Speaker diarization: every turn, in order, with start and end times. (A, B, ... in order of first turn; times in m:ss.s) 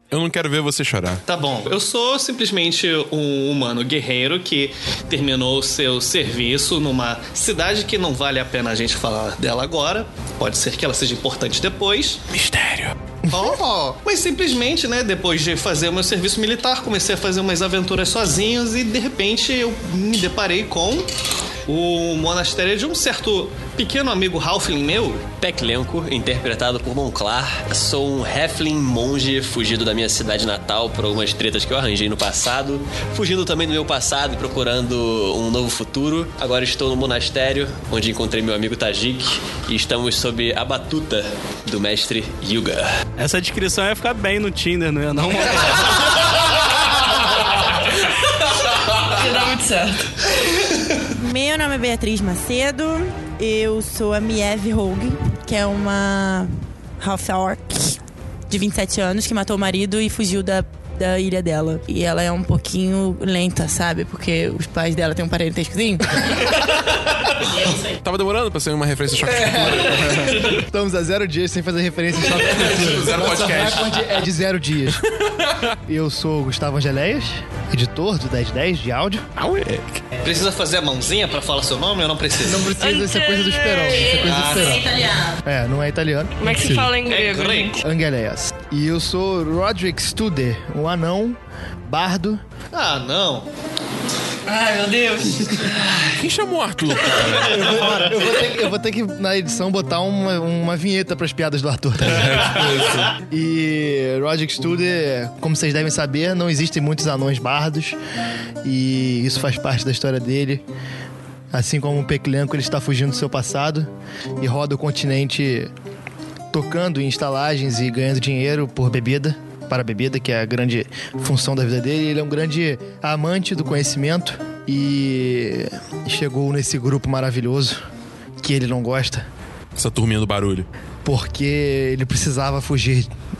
0:00.1-0:01.2 A
0:01.2-0:12.2 B
0:12.3-0:13.0 A
0:13.3-0:21.1 B
0:21.7-0:25.3 B
0:25.4-0:43.0 C
0:43.2-0:46.5 D
0:49.0-0:50.1 E
0:51.1-0:58.0 F
0:58.5-1:06.5 F
1:07.6-1:07.8 F
1:07.9-1:10.4 A
1:09.3-1:15.0 G
1:12.2-1:14.2 A
1:14.9-1:15.8 A
1:15.9-1:19.2 G
1:19.3-1:20.0 A
1:20.2-1:22.7 B
1:22.4-1:26.8 G
1:22.8-1:24.6 E
1:24.1-1:25.1 B
1:26.4-1:27.8 E
1:27.0-1:27.8 B
1:27.8-1:32.4 G
1:32.7-1:33.5 B
1:34.5-1:36.1 B
1:36.1-1:37.8 A
1:37.3-1:48.0 G
1:37.9-1:38.4 B
1:42.0-1:43.1 A
1:48.6-1:50.6 G
1:51.5-1:53.9 G
1:54.4-1:55.7 G
1:56.5-2:07.8 G
2:08.4-2:09.3 G
2:09.7-2:10.7 A
2:11.0-2:13.1 G